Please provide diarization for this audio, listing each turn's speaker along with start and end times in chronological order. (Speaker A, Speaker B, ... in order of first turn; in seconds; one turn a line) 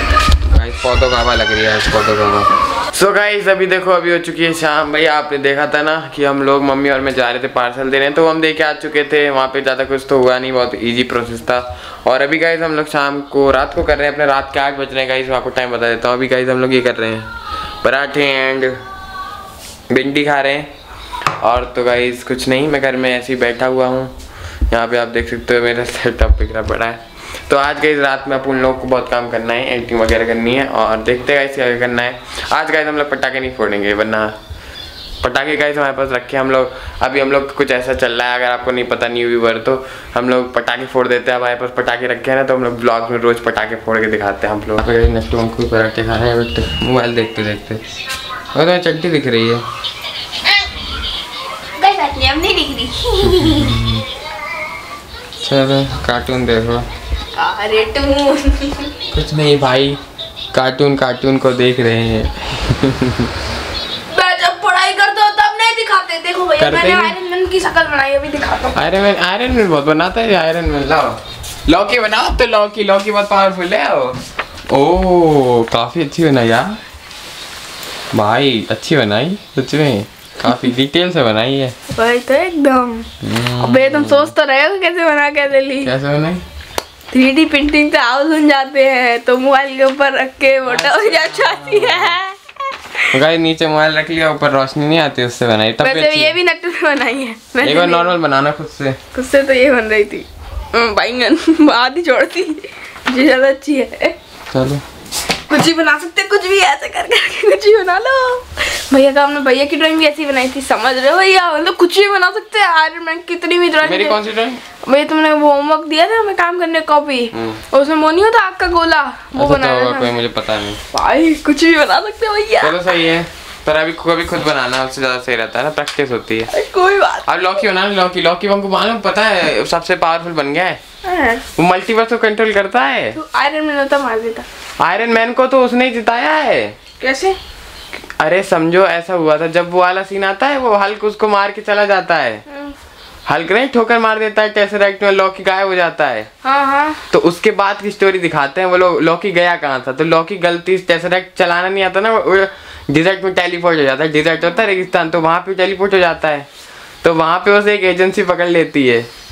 Speaker A: 0.5-17.3
Speaker A: 17.8-18.8
Speaker A: 19.9-20.7
Speaker A: 21.4-24.1
Speaker A: 24.7-34.3
Speaker A: 35.2-47.8
Speaker A: 48.5-49.6
Speaker B: 51.8-53.8
Speaker A: 53.3-54.0
Speaker A: 55.4-56.9
Speaker B: 57.3-58.9
Speaker A: 59.1-60.0
Speaker A: 60.5-63.3
Speaker B: 64.1-68.8
Speaker A: 66.6-67.2
Speaker A: 68.7-74.2
Speaker A: 74.7-76.8
Speaker A: 78.1-81.8
Speaker B: 81.9-83.1
Speaker A: 83.2-84.3
Speaker B: 83.6-85.9
Speaker A: 85.8-86.4
Speaker B: 87.1-92.4
Speaker A: 90.7-92.2
Speaker A: 93.1-96.4
Speaker B: 95.8-98.2
Speaker A: 97.6-99.0
Speaker B: 99.1-104.2
Speaker A: 104.5-104.8
Speaker B: 105.5-114.2
Speaker A: 113.8-114.6
Speaker B: 114.8-120.1
Speaker A: 117.3-117.6
Speaker A: 119.3-120.8
Speaker B: 120.9-122.8
Speaker A: 122.6-126.5
Speaker B: 126.5-127.3
Speaker A: 127.2-130.8
Speaker B: 131.0-131.4
Speaker A: 131.6-133.2
Speaker B: 133.2-134.4
Speaker A: 134.8-136.8
Speaker B: 137.0-137.4
Speaker A: 138.2-142.4
Speaker A: 143.3-146.3
Speaker B: 146.4-147.0
Speaker A: 147.1-156.5
Speaker A: 157.0-159.1